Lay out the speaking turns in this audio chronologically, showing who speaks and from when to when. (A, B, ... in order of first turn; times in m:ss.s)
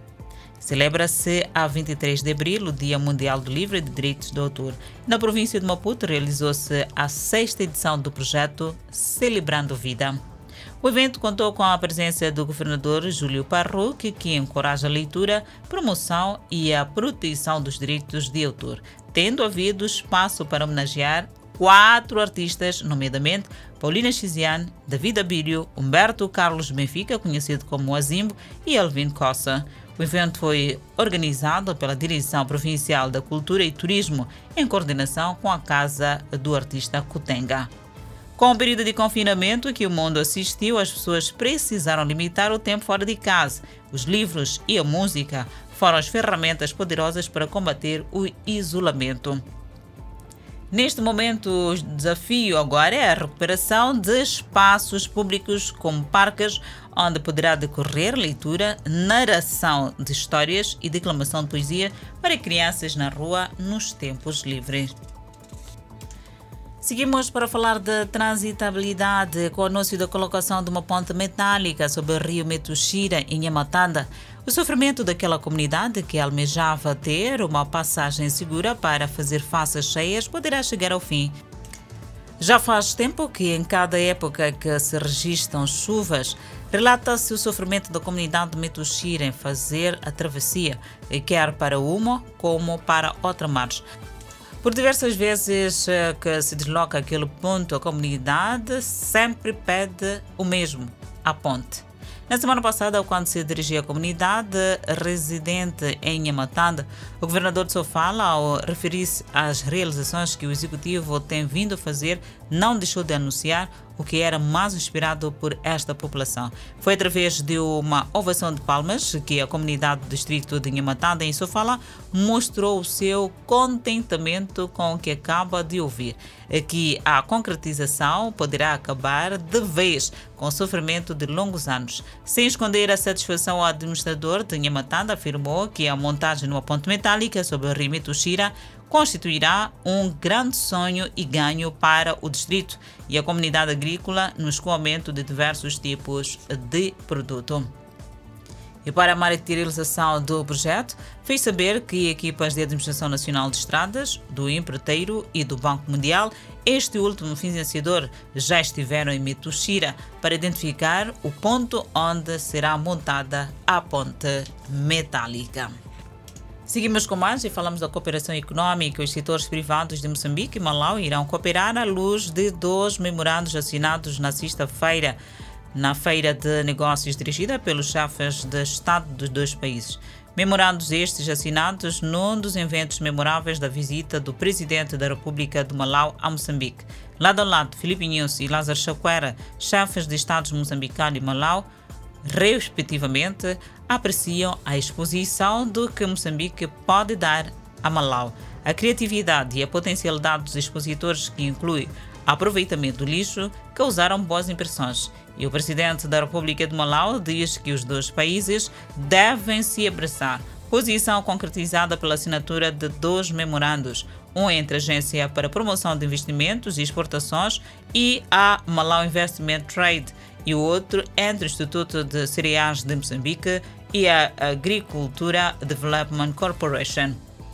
0:00.6-0:10.2 A
0:10.8-0:37.7 A
0:38.4-0:49.4 A
0:50.7-1:04.9 A
1:06.8-1:21.3 A
1:22.4-1:33.8 A
1:34.6-2:27.7 A
2:28.8-2:45.7 A
2:46.6-2:55.2 A
2:55.7-3:11.7 A
3:12.2-3:47.2 A